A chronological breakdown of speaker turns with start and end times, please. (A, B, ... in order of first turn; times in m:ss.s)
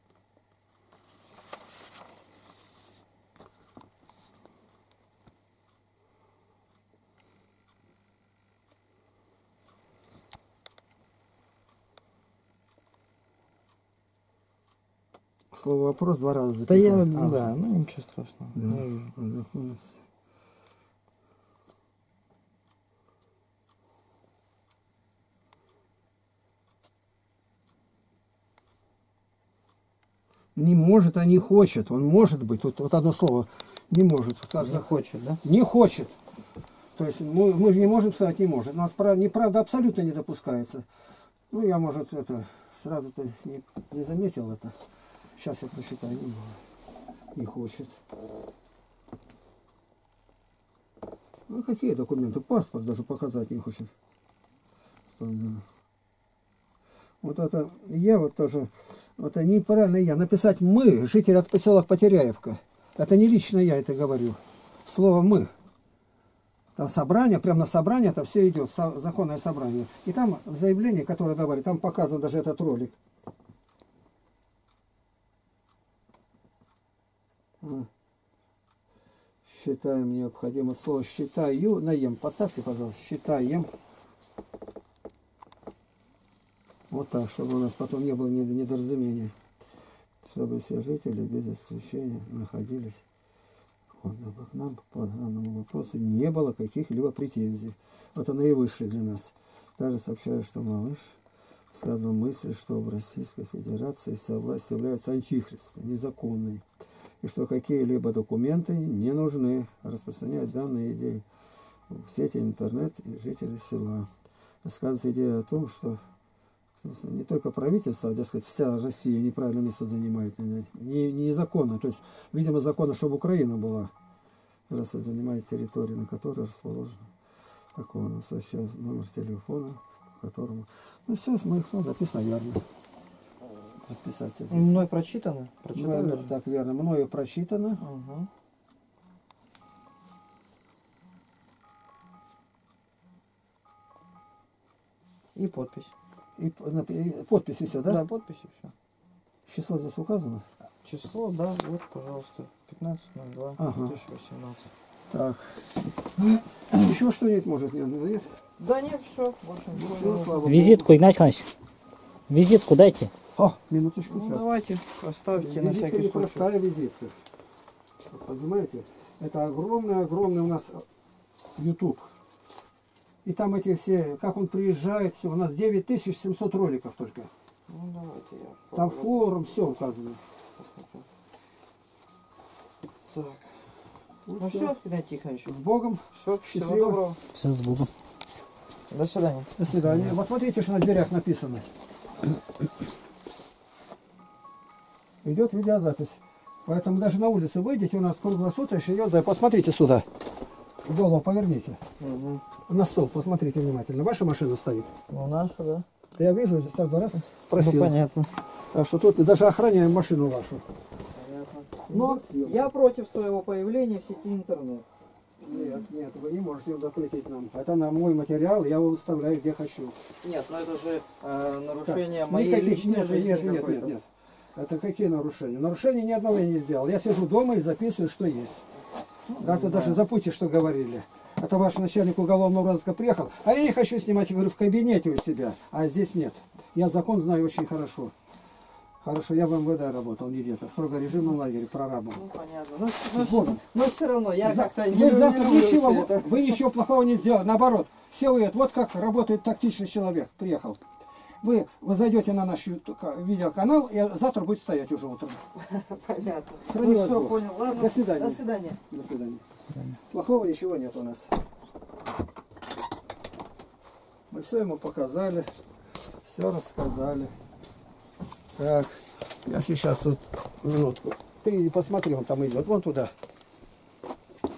0:15.5-0:17.5 A
0:16.7-0:19.1 B
0:18.5-0:20.0 A
0:30.5-0:34.9 A
0:34.6-0:35.4 B
0:35.4-0:36.2 A
0:37.0-0:40.8 A
0:41.5-0:44.8 A
0:45.4-0:46.6 A
0:47.3-0:48.0 A
0:51.5-0:53.9 A
0:55.2-0:55.6 A
0:57.2-1:05.5 A
1:06.8-1:12.9 A
1:17.6-1:17.9 A
1:19.4-1:23.7 A
1:26.9-1:29.3 A
1:30.2-1:33.0 A
1:33.9-1:41.2 A
1:41.7-1:46.6 A
1:47.2-1:51.2 A
1:51.9-1:54.1 A
1:54.6-1:56.0 A
1:56.8-2:03.9 A
2:04.7-2:07.1 A
2:07.7-2:12.6 A
2:13.8-2:14.7 A
2:14.5-2:16.3 B
2:15.7-2:17.8 A
2:17.8-2:18.3 B
2:25.3-2:25.9 B
2:26.4-2:28.0 A
2:27.8-2:28.7 B
2:29.4-2:30.4 A
2:30.8-2:34.7 B
2:33.6-2:34.0 A
2:35.1-2:35.6 A
2:36.2-2:36.9 B
2:36.7-2:38.3 A
2:38.6-2:40.4 B
2:39.7-2:41.0 A
2:40.4-2:41.5 C
2:42.3-2:43.1 C
2:43.4-2:44.4 A
2:44.1-2:46.4 B
2:45.4-2:47.1 A
2:48.1-2:50.8 A
2:51.6-2:52.1 A
2:53.2-2:57.3 A
2:57.7-2:59.1 B
2:58.7-3:00.2 A
3:00.6-3:01.0 B
3:03.1-3:03.6 B
3:04.2-3:04.8 A
3:04.4-3:05.6 B
3:05.5-3:07.0 A
3:06.1-3:07.2 B
3:07.3-3:07.9 C
3:08.9-3:09.5 B
3:09.6-3:11.6 A
3:09.7-3:10.1 C
3:15.2-3:20.0 A
3:20.8-3:21.8 A
3:22.0-3:22.4 B
3:22.7-3:24.9 A
3:25.1-3:25.8 B
3:26.1-3:28.0 A
3:27.6-3:28.3 B
3:28.7-3:30.6 A
3:31.1-3:34.8 B
3:31.9-3:32.6 A
3:35.4-3:40.0 A
3:40.2-3:43.9 B
3:41.8-3:48.6 A
3:49.3-3:50.0 B
3:49.4-3:58.1 A
3:59.0-4:02.2 A
4:02.1-4:06.6 B
4:03.1-4:03.6 A
4:04.4-4:10.8 A
4:11.4-4:15.4 A
4:15.6-4:18.8 B
4:16.7-4:19.4 A
4:20.0-4:21.3 A
4:24.3-4:25.5 A
4:26.2-4:27.3 A
4:28.6-4:33.1 A